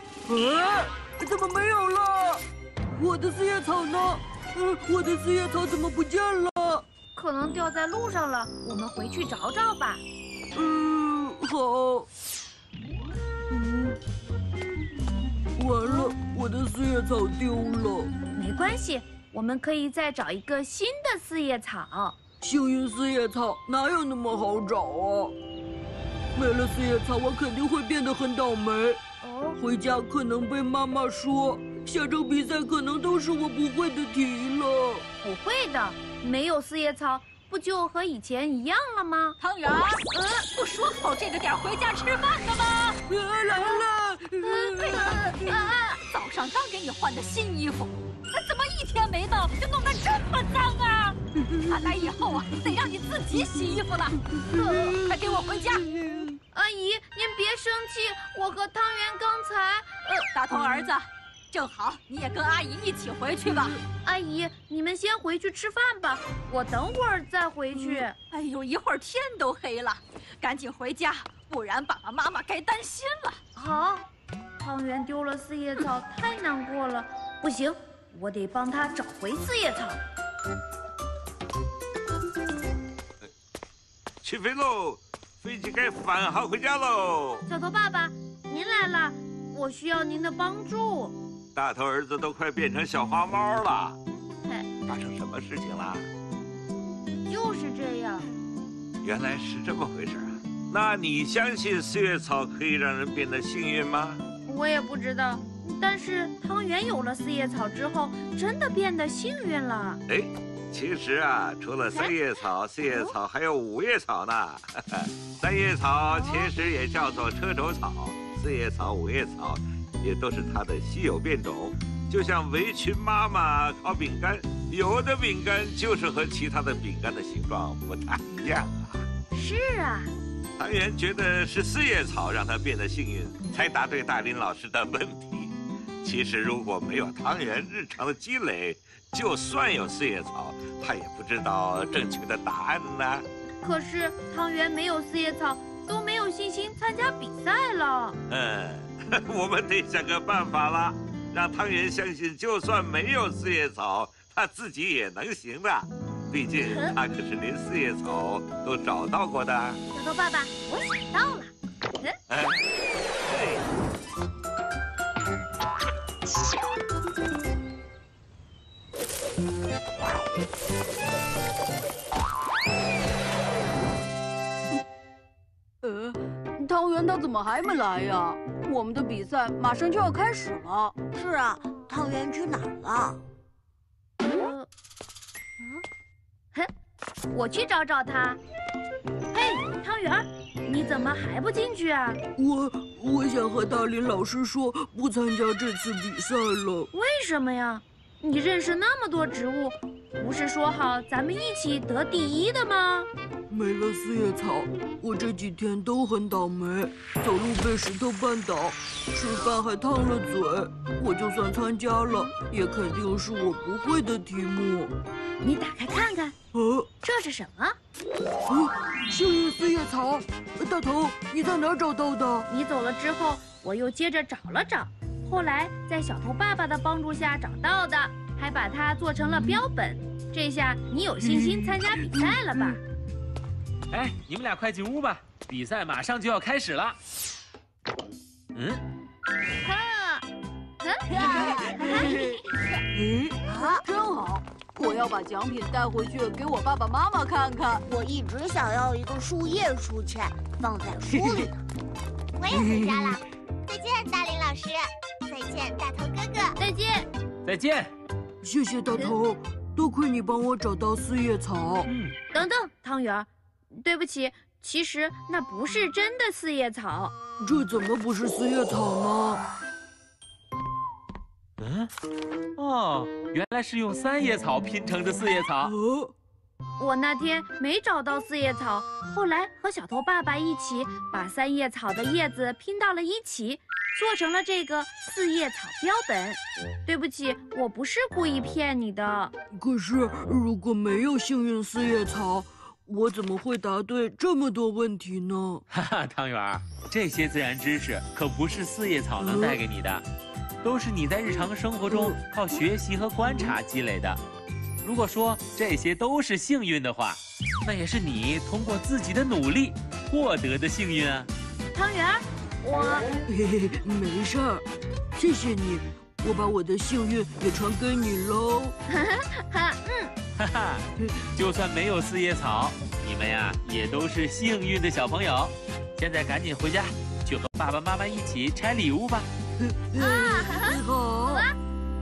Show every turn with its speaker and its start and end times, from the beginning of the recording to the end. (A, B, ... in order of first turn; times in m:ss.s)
0:00.3-0:06.8 A
0:07.1-0:10.0 B
0:10.5-0:12.1 A
0:13.5-0:14.0 A
0:15.6-0:18.1 A
0:18.3-0:22.2 B
0:22.4-0:25.4 A
0:26.4-0:29.0 A
0:29.2-0:29.6 B
0:29.6-0:35.1 A
0:35.2-0:39.4 B
0:39.4-0:43.0 C
0:43.1-0:45.7 A
0:44.6-0:54.3 C
0:54.5-0:55.1 A
0:54.6-0:54.9 B
0:55.0-0:55.9 C
0:55.9-0:56.3 A
0:56.5-1:00.3 B
1:00.3-1:03.8 C
1:04.0-1:08.2 B
1:08.3-1:13.4 C
1:13.6-1:14.0 B
1:14.6-1:20.0 B
1:24.2-1:27.4 D
1:27.5-1:31.2 B
1:31.5-1:34.0 D
1:34.8-1:36.1 D
1:37.3-1:38.3 B
1:39.0-1:44.2 D
1:44.5-1:50.0 B
1:50.1-2:09.0 D
1:56.2-1:56.5 B
2:09.3-2:10.1 B
2:10.6-2:23.3 D
2:23.6-2:28.2 B
2:28.3-2:39.8 D
2:36.7-2:36.9 B
2:39.9-2:42.2 B
2:42.3-2:43.7 D
2:55.8-3:01.0 E
3:01.1-3:03.2 F
3:04.2-3:04.7 B
3:07.3-3:08.4 B
3:09.3-3:12.2 B
3:12.4-3:16.9 A
3:16.9-3:23.1 B
3:23.5-3:34.9 A
3:35.4-3:36.4 B
3:36.5-3:36.9 A
3:37.0-3:37.8 B
3:38.5-3:42.5 A
3:42.5-3:52.8 B
3:51.2-3:52.8 A
3:53.9-3:57.0 G
3:58.6-3:58.8 G
3:59.6-4:00.3 B
4:00.8-4:02.3 B
4:01.1-4:02.2 F
4:01.8-4:02.4 E
4:02.9-4:03.4 A
4:03.4-4:03.8 F
4:03.7-4:07.8 E
4:07.9-4:11.6 F
4:12.4-4:16.6 H
4:12.5-4:13.2 A
4:16.6-4:17.1 B
4:17.4-4:17.9 G
4:18.4-4:21.9 A
4:21.9-4:22.2 G
4:22.3-4:23.3 B
4:23.8-4:27.1 B
4:27.4-4:29.4 A
4:31.6-4:31.9 G
4:32.6-4:35.7 G
4:35.6-4:36.1 A
4:36.8-4:49.3 B
4:49.5-4:55.6 A
4:55.7-5:00.0 G
4:59.2-4:59.6 A
5:00.6-5:04.2 G
5:01.9-5:02.2 A
5:04.8-5:11.3 G
5:11.7-5:13.1 B
5:13.3-5:18.8 A
5:18.9-5:20.1 B
5:20.4-5:20.8 G
5:21.4-5:29.3 G
5:29.6-5:31.5 A
5:30.0-5:30.8 B